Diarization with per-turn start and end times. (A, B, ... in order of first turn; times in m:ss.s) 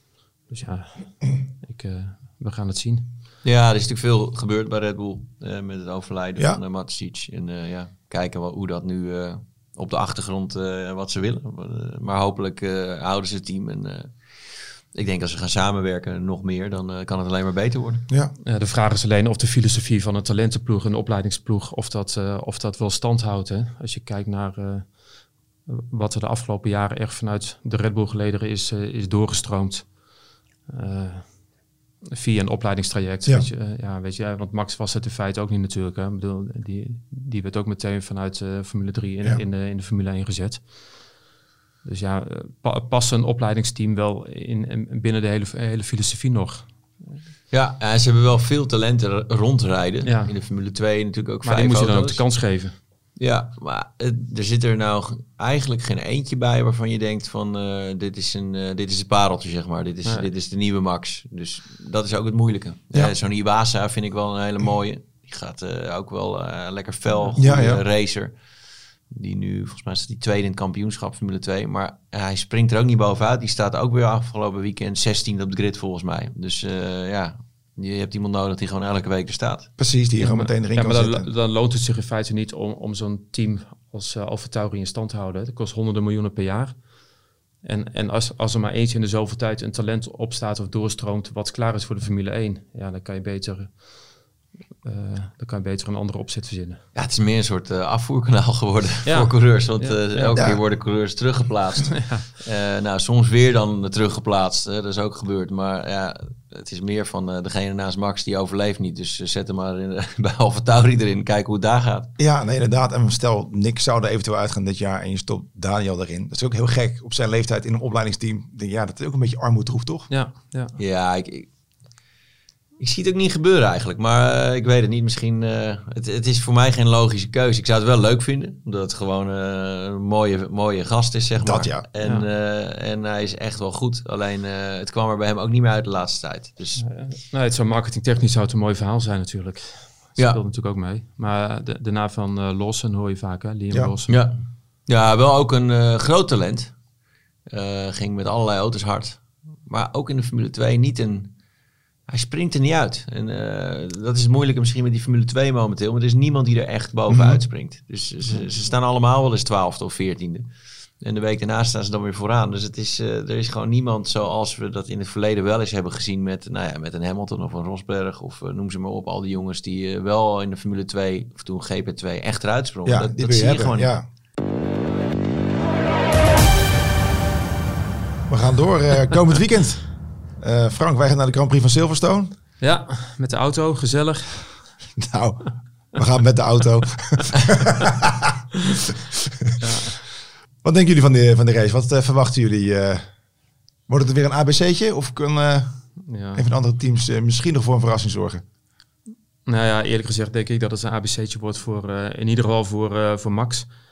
0:00.5-0:03.0 A
0:03.4-0:14.2 B
0:14.9-0:18.0 B
0:18.4-0:25.0 A
0:25.6-0:30.0 A
0:30.6-0:31.4 A
0:32.1-0:41.1 A
0:33.2-0:33.5 C
0:41.8-0:46.8 A
0:47.5-0:52.2 B
0:50.0-0:50.3 A
0:51.4-0:52.7 A
0:53.2-1:08.4 B
1:07.4-1:07.8 C
1:09.1-1:19.7 B
1:19.8-1:21.3 C
1:20.2-1:26.9 A
1:27.6-1:34.0 A
1:34.8-1:36.8 A
1:36.9-1:52.1 B
1:39.0-1:40.4 A
1:40.3-1:40.6 C
1:41.9-1:42.2 A
1:52.2-2:00.1 C
2:00.1-2:00.7 A
2:00.8-2:01.5 B
2:02.8-2:16.8 B
2:11.4-2:11.8 C
2:16.8-2:24.3 A
2:24.1-2:26.7 B
2:27.5-2:31.3 B
2:32.1-2:40.5 B
2:37.1-2:37.4 C
2:41.0-2:54.0 B
2:52.9-2:54.0 C
2:58.3-3:02.3 C
3:02.6-3:04.7 A
3:05.0-3:08.3 C
3:09.6-3:10.0 A
3:10.6-3:13.1 C
3:13.9-3:18.4 C
3:16.0-3:16.4 A
3:19.4-3:23.7 A